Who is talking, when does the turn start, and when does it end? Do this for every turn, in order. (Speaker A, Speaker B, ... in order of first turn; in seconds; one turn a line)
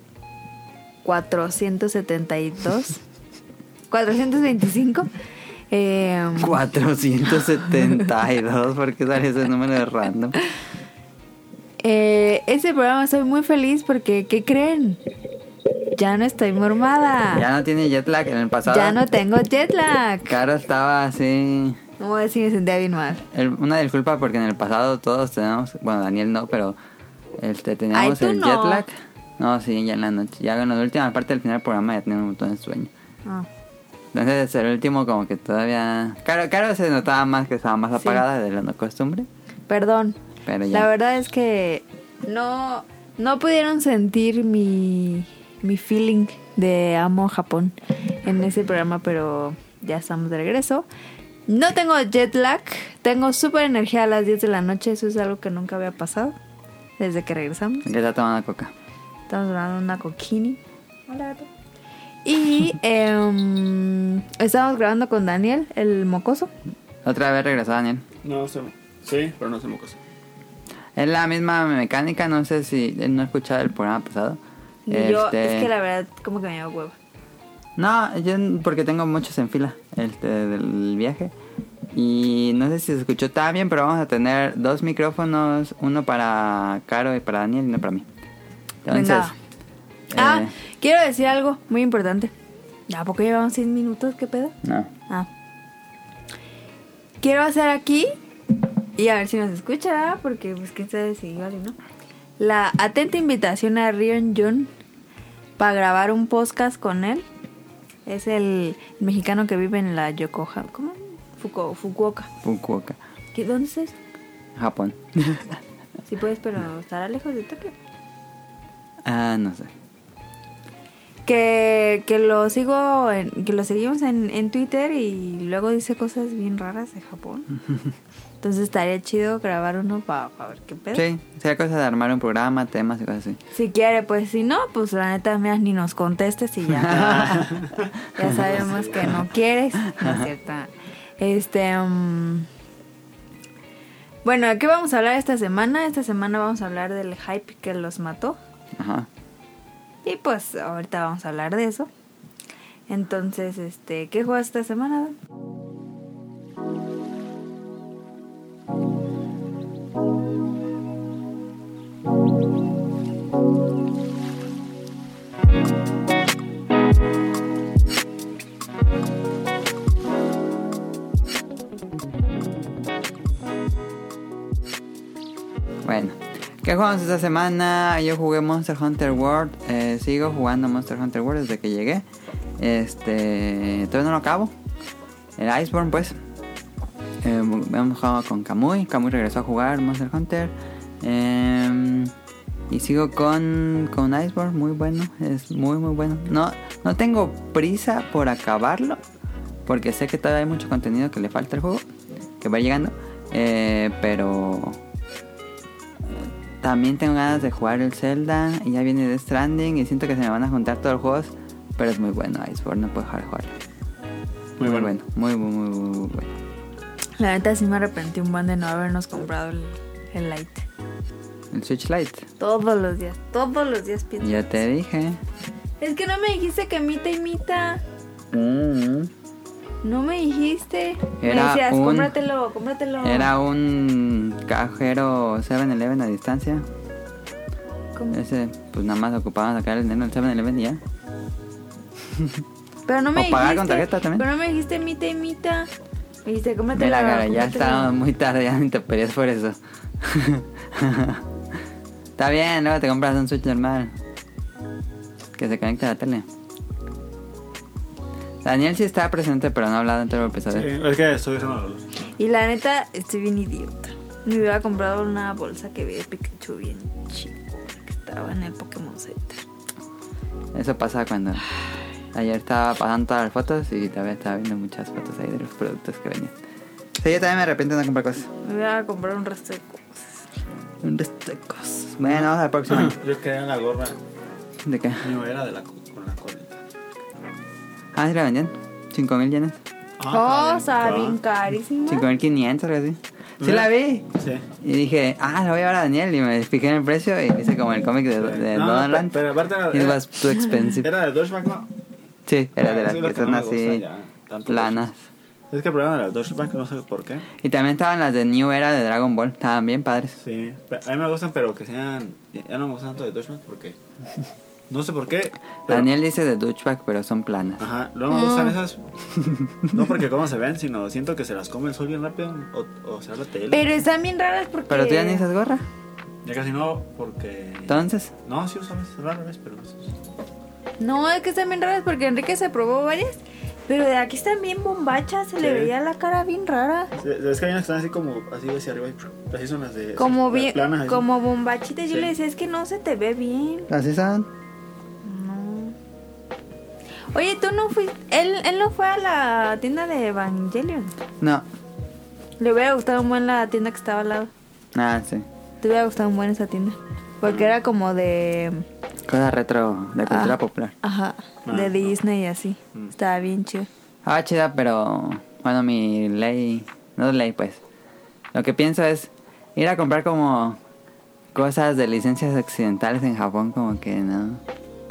Speaker A: 1.0-3.0
Speaker A: 3.9-5.1
Speaker A: 5.7-6.6
Speaker B: 6.4-10.4
Speaker A: 11.8-15.0
Speaker A: 15.9-17.4
Speaker B: 17.3-19.0
Speaker A: 18.7-20.4
Speaker B: 20.3-21.8
Speaker A: 22.0-23.2
Speaker B: 23.3-26.8
Speaker B: 27.4-32.9
Speaker A: 27.9-28.8
Speaker B: 34.1-39.3
Speaker A: 38.0-38.2
Speaker A: 39.7-40.2
Speaker B: 40.5-40.9
Speaker A: 40.7-50.9
Speaker A: 51.5-56.4
Speaker A: 57.0-57.9
Speaker B: 57.9-58.7
Speaker A: 59.3-61.5
Speaker A: 62.2-66.5
Speaker B: 67.0-68.0
Speaker C: 68.2-70.0
Speaker B: 71.0-75.7
Speaker A: 74.9-77.0
Speaker B: 77.8-81.3
Speaker B: 81.9-88.1
Speaker B: 88.8-89.3
Speaker A: 88.9-89.3
Speaker B: 90.1-90.5
Speaker A: 90.2-92.3
Speaker A: 92.9-94.5
Speaker B: 94.6-94.9
Speaker A: 97.2-98.1
Speaker A: 99.0-101.8
Speaker A: 102.4-104.7
Speaker A: 105.6-107.3
Speaker A: 108.1-112.3
Speaker B: 112.4-113.0
Speaker A: 113.3-114.0
Speaker B: 114.6-115.6
Speaker A: 116.1-117.7
Speaker B: 119.0-119.7
Speaker A: 121.3-127.5
Speaker A: 128.4-131.1
Speaker B: 130.9-133.4
Speaker A: 133.5-137.0
Speaker B: 136.7-137.5
Speaker C: 136.9-139.1
Speaker A: 138.2-142.5
Speaker B: 140.0-140.3
Speaker A: 144.2-148.4
Speaker B: 148.8-149.1
Speaker A: 150.1-151.9
Speaker A: 152.9-155.2
Speaker B: 175.8-182.0
Speaker B: 182.6-184.5
Speaker B: 185.4-186.2
Speaker B: 187.2-192.1
Speaker B: 192.7-199.0
Speaker B: 199.7-201.8
Speaker B: 202.4-204.8
Speaker B: 206.1-213.5
Speaker C: 214.6-214.9
Speaker B: 214.6-216.3
Speaker A: 217.2-220.7
Speaker B: 221.5-222.3
Speaker A: 222.4-224.6
Speaker B: 224.2-225.2
Speaker A: 225.8-227.8
Speaker B: 228.3-229.1
Speaker A: 229.8-233.3
Speaker B: 231.2-232.2
Speaker B: 233.0-236.7
Speaker B: 238.1-240.8
Speaker B: 242.1-242.4
Speaker A: 242.9-245.7
Speaker B: 243.2-244.2
Speaker A: 246.2-247.9
Speaker B: 246.8-251.2
Speaker B: 252.2-253.9
Speaker B: 255.4-256.3
Speaker B: 258.4-260.7
Speaker C: 260.5-261.9
Speaker A: 262.2-269.4
Speaker B: 270.5-271.4
Speaker B: 272.1-276.3
Speaker B: 277.0-278.3
Speaker A: 278.4-280.2
Speaker B: 280.8-283.0
Speaker C: 282.0-284.0
Speaker B: 284.6-285.1
Speaker C: 285.0-286.6
Speaker B: 287.9-289.6
Speaker C: 290.0-291.2
Speaker A: 290.1-292.1
Speaker B: 291.9-294.1
Speaker C: 293.4-294.4
Speaker B: 294.6-300.9
Speaker C: 298.2-300.1
Speaker C: 300.6-301.7
Speaker B: 302.3-303.8
Speaker C: 302.6-304.9
Speaker B: 304.5-305.0
Speaker C: 305.5-307.3
Speaker B: 307.4-310.2
Speaker C: 310.2-313.8
Speaker C: 314.7-315.9
Speaker B: 315.7-317.7
Speaker C: 317.6-318.8
Speaker A: 318.1-318.6
Speaker C: 319.7-323.7
Speaker A: 323.5-325.3
Speaker B: 324.7-325.6
Speaker C: 326.2-329.9
Speaker B: 327.7-328.1
Speaker A: 330.8-336.9
Speaker C: 335.4-335.7
Speaker C: 337.0-341.1
Speaker A: 340.0-343.7
Speaker B: 343.7-344.3
Speaker A: 345.0-345.8
Speaker A: 347.1-350.9
Speaker A: 352.4-354.3
Speaker B: 354.7-355.3
Speaker A: 355.6-358.6
Speaker C: 357.2-357.5
Speaker B: 359.1-360.7
Speaker A: 360.1-363.7
Speaker C: 361.5-361.9
Speaker B: 364.1-367.6
Speaker B: 368.3-370.6
Speaker B: 371.3-374.4